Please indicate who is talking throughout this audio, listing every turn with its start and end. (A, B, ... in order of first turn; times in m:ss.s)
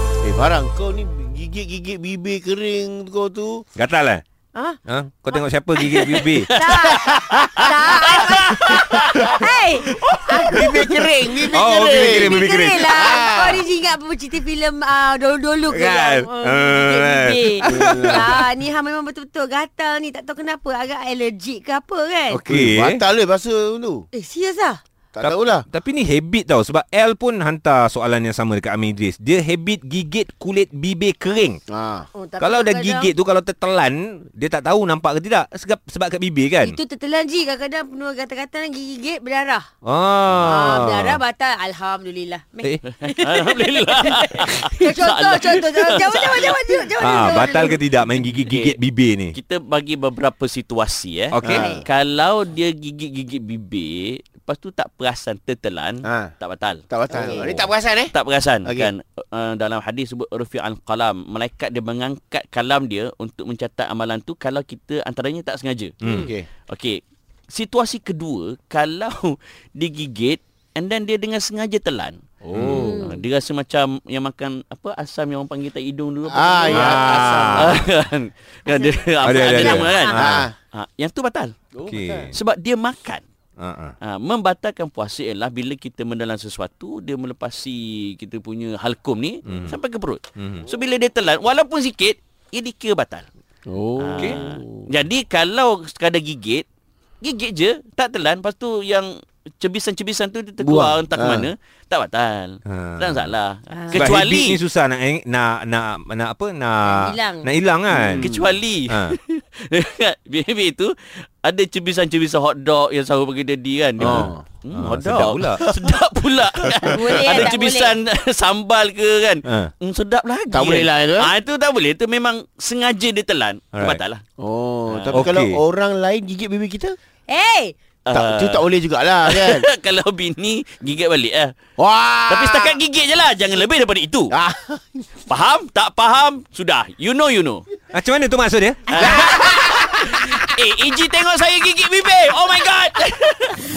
0:00.2-0:03.6 A
0:03.8-0:04.2 B
0:04.9-0:06.5 B
0:05.8-0:12.2 C
0:06.5-0:10.6 D
0:06.9-0:07.7 A
0:10.5-0:13.6 A
0:11.5-0:13.0 B
0:12.2-0:22.4 D
0:15.7-0:18.5 B
0:17.7-0:18.2 A
0:22.3-0:23.0 B
0:22.5-0:24.0 A
0:24.1-0:24.8 D
0:25.2-0:25.6 A
0:25.2-0:31.6 B
0:31.7-0:32.1 A
0:32.1-0:33.1 D
0:32.4-0:36.8 B
0:36.6-0:39.7 D
0:39.8-0:41.2 B
0:40.4-0:47.8 D
0:42.9-0:47.5 C
0:47.0-0:49.4 B
0:48.5-0:48.8 C
0:49.3-1:06.0 C
0:51.3-0:51.6 B
0:51.4-0:51.7 A
0:51.5-0:51.8 D
0:56.0-0:56.3 A
0:56.9-0:58.1 A
0:57.1-0:57.5 D
1:06.0-1:06.3 D
1:06.1-1:06.5 A
1:06.7-1:12.2 C
1:12.4-1:13.1 A
1:12.5-1:12.9 B
1:12.7-1:13.2 D
1:12.8-1:21.5 C
1:16.3-1:17.8 A
1:16.7-1:17.7 B
1:18.7-1:20.2 D
1:19.2-1:20.5 B
1:20.1-1:20.5 A
1:21.7-1:22.3 A
1:21.8-1:22.3 B
1:22.3-1:23.2 C
1:23.6-1:23.9 B
1:24.0-1:33.2 C
1:29.4-1:29.8 B
1:30.4-1:30.6 B
1:33.7-1:34.9 A
1:34.0-1:36.6 C
1:37.2-1:44.6 C
1:40.6-1:41.5 A
1:42.7-1:43.3 B
1:43.7-1:44.1 D
1:43.9-1:48.3 B
1:46.8-1:47.5 D
1:47.9-1:48.5 A
1:48.2-2:04.2 C
1:48.9-1:49.2 B
1:54.0-1:55.6 B
1:54.0-1:54.4 A
1:56.8-1:58.0 D
2:00.5-2:01.3 A
2:03.7-2:04.0 B
2:04.4-2:07.0 A
2:04.9-2:05.3 C
2:05.1-2:05.6 B
2:07.3-2:07.7 D
2:08.0-2:08.6 C
2:08.1-2:09.6 A
2:09.2-2:11.5 C
2:11.8-2:12.8 A
2:12.3-2:14.3 C
2:14.3-2:15.0 A
2:15.3-2:17.6 C
2:17.9-2:19.3 B
2:18.9-2:23.6 C
2:18.9-2:20.1 A